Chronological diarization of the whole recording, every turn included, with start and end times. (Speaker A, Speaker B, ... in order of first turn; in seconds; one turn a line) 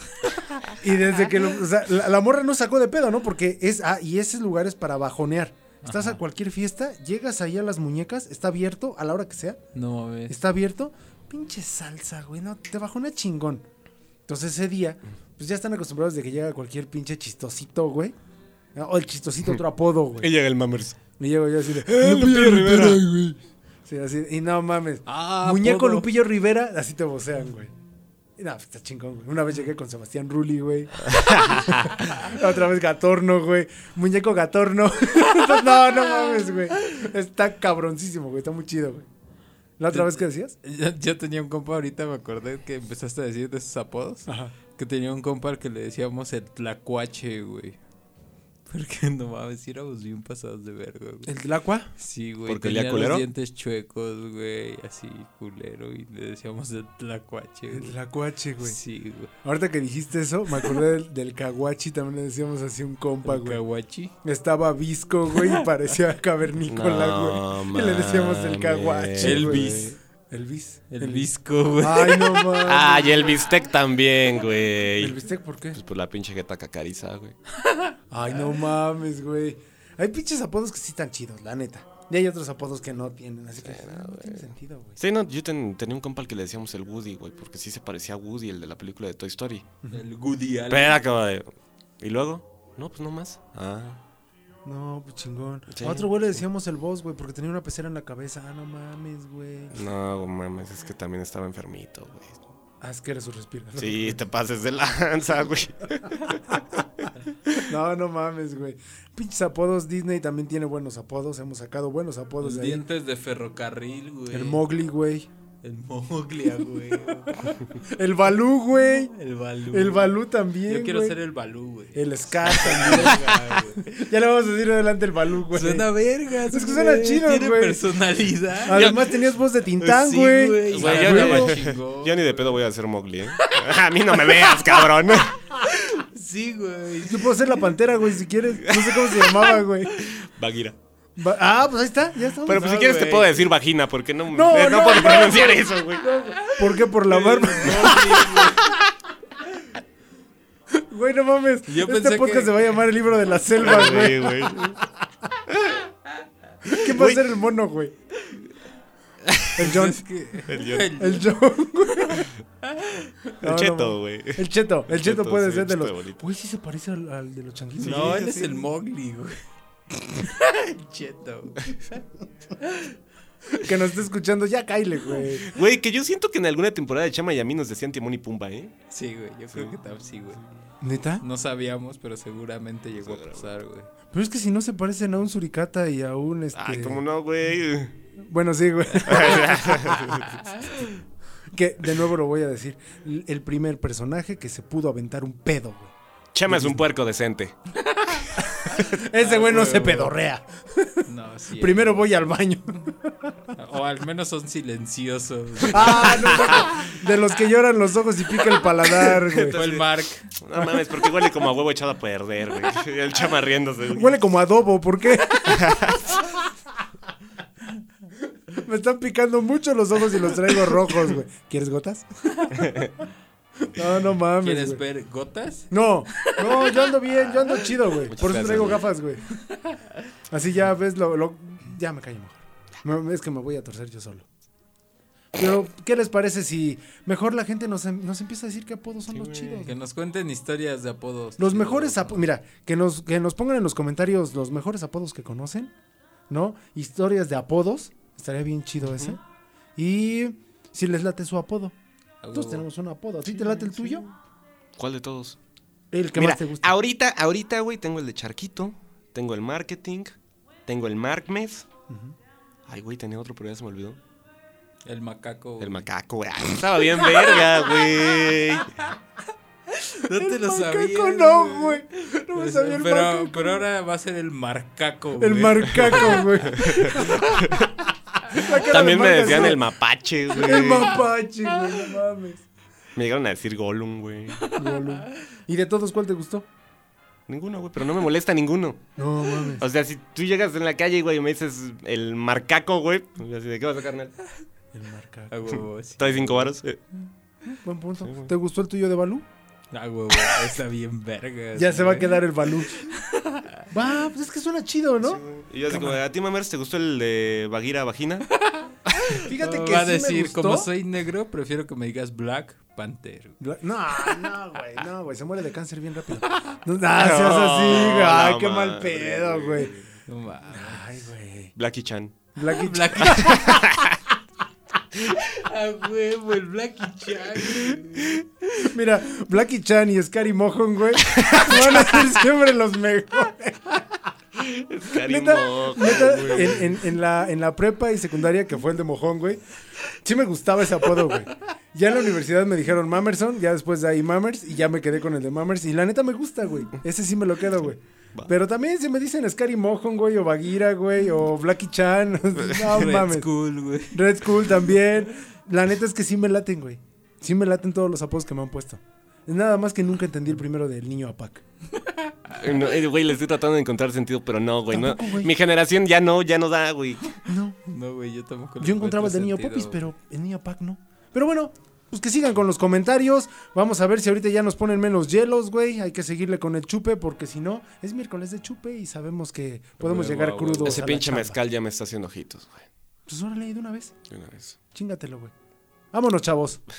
Speaker A: 0.7-9.6
Speaker B: 5.8-6.2
Speaker B: 9.7-10.3
Speaker A: 10.3-13.6
Speaker A: 14.3-18.1
Speaker A: 18.7-20.3
Speaker C: 20.2-21.0
Speaker A: 21.2-23.3
Speaker C: 21.8-23.4
Speaker A: 23.9-27.7
Speaker B: 25.1-26.1
Speaker A: 28.4-39.1
Speaker A: 39.8-40.5
Speaker B: 39.9-47.8
Speaker A: 44.3-44.5
Speaker B: 48.7-51.3
Speaker A: 51.2-51.9
Speaker B: 52.0-57.9
Speaker C: 52.5-53.2
Speaker A: 57.7-58.8
Speaker B: 58.6-59.3
Speaker A: 59.4-63.6
Speaker B: 63.2-64.1
Speaker A: 64.2-73.5
Speaker B: 65.3-65.6
Speaker C: 66.7-69.9
Speaker B: 69.2-70.0
Speaker B: 70.9-72.6
Speaker C: 72.6-75.2
Speaker A: 75.0-75.8
Speaker C: 75.7-77.3
Speaker B: 77.6-77.9
Speaker A: 78.1-85.0
Speaker C: 83.6-89.7
Speaker B: 89.9-91.0
Speaker C: 90.7-94.0
Speaker A: 94.6-99.8
Speaker C: 95.7-96.2
Speaker C: 99.7-102.5
Speaker A: 102.8-104.2
Speaker C: 103.8-107.6
Speaker A: 107.6-112.8
Speaker B: 112.4-114.6
Speaker A: 114.3-115.3
Speaker B: 115.6-117.5
Speaker A: 117.3-119.1
Speaker B: 119.1-120.2
Speaker A: 119.7-121.2
Speaker B: 120.7-123.8
Speaker A: 121.9-125.9
Speaker B: 125.5-129.1
Speaker A: 126.5-127.9
Speaker A: 128.6-131.6
Speaker C: 128.7-129.1
Speaker B: 129.8-132.6
Speaker C: 130.7-135.5
Speaker B: 133.3-137.6
Speaker A: 137.0-140.0
Speaker C: 138.6-140.8
Speaker A: 141.2-142.8
Speaker C: 142.4-146.1
Speaker B: 142.5-143.4
Speaker A: 144.3-148.8
Speaker B: 146.1-148.8
Speaker C: 147.6-148.1
Speaker A: 150.7-155.0
Speaker B: 151.7-152.6
Speaker C: 153.6-154.8
Speaker C: 155.5-155.8
Speaker A: 156.7-157.9
Speaker C: 156.8-157.2
Speaker B: 159.3-161.3
Speaker A: 159.6-160.0
Speaker C: 160.5-161.0
Speaker A: 160.9-162.3
Speaker B: 162.0-163.1
Speaker C: 163.4-166.2
Speaker A: 163.4-168.7
Speaker C: 167.8-168.2
Speaker B: 167.8-169.4
Speaker B: 170.0-172.0
Speaker B: 172.6-172.9
Speaker A: 173.6-175.5
Speaker C: 175.4-178.7
Speaker B: 178.9-180.4
Speaker A: 180.8-181.2
Speaker B: 181.2-183.9
Speaker C: 183.0-183.5
Speaker A: 184.1-187.0
Speaker C: 186.5-187.9
Speaker A: 188.2-190.3
Speaker C: 189.0-190.4
Speaker B: 190.4-191.0
Speaker A: 191.5-195.9
Speaker C: 196.3-197.6
Speaker A: 196.5-196.8
Speaker B: 197.8-198.4
Speaker A: 198.4-203.5
Speaker B: 199.1-200.1
Speaker B: 201.1-202.1
Speaker B: 203.6-206.5
Speaker A: 205.7-209.7
Speaker C: 206.3-206.7
Speaker C: 209.1-214.2
Speaker B: 209.4-210.3
Speaker A: 213.9-215.9
Speaker C: 215.5-216.2
Speaker A: 218.5-222.7
Speaker C: 222.6-222.9
Speaker A: 223.7-224.8
Speaker B: 224.4-226.9
Speaker A: 225.7-229.2
Speaker C: 228.0-228.8
Speaker B: 229.6-230.0
Speaker A: 230.3-234.2
Speaker A: 235.3-239.7
Speaker C: 239.1-239.7
Speaker B: 239.6-242.2
Speaker A: 241.4-245.7
Speaker A: 246.3-249.2
Speaker C: 248.8-249.2
Speaker A: 249.8-251.8
Speaker B: 252.2-252.7
Speaker A: 252.3-254.0
Speaker C: 253.5-254.1
Speaker C: 254.8-255.4
Speaker A: 255.9-256.7
Speaker C: 256.1-260.1
Speaker C: 260.7-261.7
Speaker A: 261.9-262.1
Speaker C: 262.7-264.0
Speaker B: 264.9-265.9
Speaker C: 265.6-268.7
Speaker B: 269.7-276.4
Speaker A: 270.1-273.6
Speaker A: 275.2-279.6
Speaker C: 276.5-277.7
Speaker C: 278.3-281.0
Speaker A: 280.3-282.4
Speaker C: 282.9-284.5
Speaker A: 284.5-286.4
Speaker C: 287.3-288.9
Speaker A: 289.0-289.6
Speaker C: 289.5-294.1
Speaker A: 294.7-295.6
Speaker B: 295.3-296.5
Speaker C: 296.0-296.8
Speaker A: 297.4-299.2
Speaker C: 298.0-298.3
Speaker B: 299.7-303.6
Speaker A: 301.5-302.9
Speaker A: 303.7-306.0
Speaker C: 305.0-308.3
Speaker B: 308.4-313.4
Speaker A: 309.1-310.7
Speaker A: 313.4-319.7
Speaker C: 316.9-319.8
Speaker B: 320.1-321.0
Speaker A: 320.5-321.5
Speaker C: 321.6-322.2
Speaker A: 322.4-323.9
Speaker B: 322.4-323.6
Speaker C: 323.0-324.0
Speaker B: 325.0-328.2
Speaker A: 328.5-333.9
Speaker C: 331.0-332.0
Speaker C: 334.4-336.8
Speaker A: 334.9-353.3
Speaker B: 352.6-354.0
Speaker A: 353.9-361.4
Speaker B: 361.8-362.4
Speaker C: 362.3-367.2
Speaker A: 364.7-365.3
Speaker A: 367.2-367.6
Speaker B: 367.6-369.8
Speaker A: 368.6-381.4
Speaker C: 379.8-382.7
Speaker B: 379.9-380.8
Speaker A: 383.1-383.9
Speaker C: 384.1-384.6
Speaker A: 384.7-385.3
Speaker A: 385.9-386.6